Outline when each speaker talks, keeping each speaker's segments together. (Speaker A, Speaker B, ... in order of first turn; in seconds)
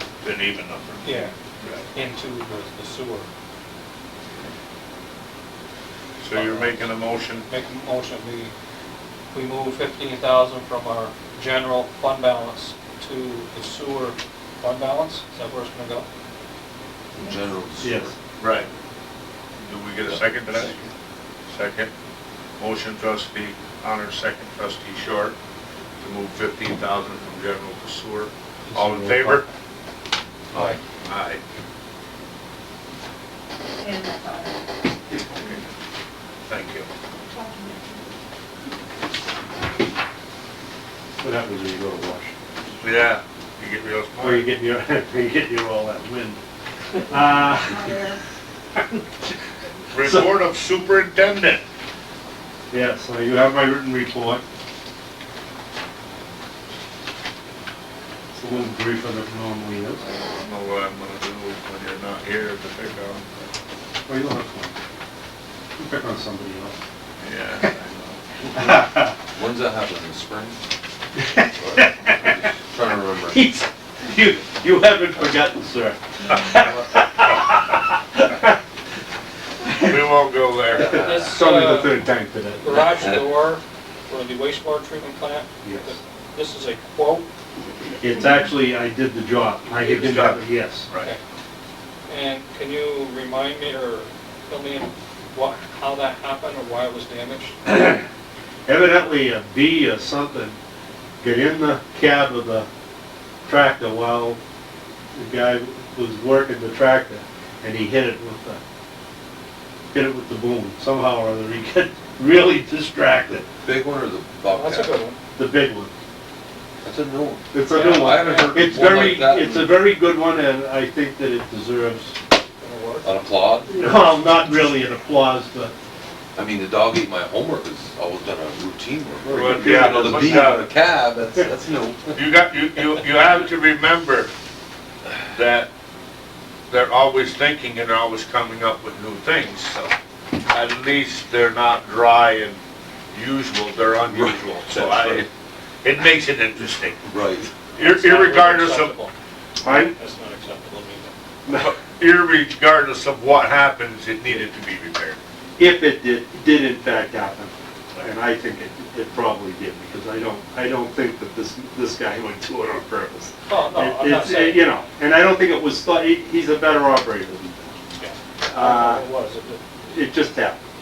Speaker A: 0.2-1.8, 6.2-7.5, 18.4-18.7, 19.6-20.8, 21.5-21.9, 22.6-25.3, 26.0-29.5, 31.0-31.4, 35.2-35.6, 36.5-36.9, 42.8-44.5, 49.9-51.6, 60.1-63.3, 67.2-68.2, 79.8-81.0, 89.7-91.1, 129.3-130.7, 132.1-134.3, 135.3-135.7, 136.7-139.9, 140.5-142.6, 143.1-145.3, 145.8-147.0, 147.6-149.0, 151.5-155.2
Speaker B: 1.0-1.3, 1.9-3.3, 6.3-6.9, 7.5-8.5, 9.3-16.1, 30.5-30.8, 80.8-82.0, 82.6-87.2, 92.1-97.6, 114.5-115.2, 117.7-118.6, 122.6-123.1, 147.7-151.1, 163.5-164.8, 168.0-169.6
Speaker C: 17.1-18.1, 69.4-70.6, 71.6-73.4, 83.0-83.2, 113.7-114.9, 116.8-119.7, 123.0-123.9, 126.3-132.2, 144.1-145.2, 147.1-147.5
Speaker D: 17.8-18.1, 28.7-29.4, 41.2-42.4, 44.2-46.4, 47.0-48.0, 48.8-49.0, 50.0-50.2, 52.7-54.4, 58.3-60.0, 64.1-64.8, 65.8-66.8, 68.5-69.1, 71.3-72.4, 73.3-78.6, 79.7-80.0, 80.7-82.8, 85.6-85.9, 88.0-90.9, 97.7-98.0, 98.7-100.6, 101.2-102.7, 103.5-104.4, 105.1-108.6, 109.9-113.5, 115.3-115.9, 117.5-122.2, 123.8-125.7, 129.2-130.5, 149.6-149.9, 155.6-167.7, 168.5-169.1, 169.9-170.6
Speaker E: 33.8-34.6, 37.3-38.0, 47.1-48.2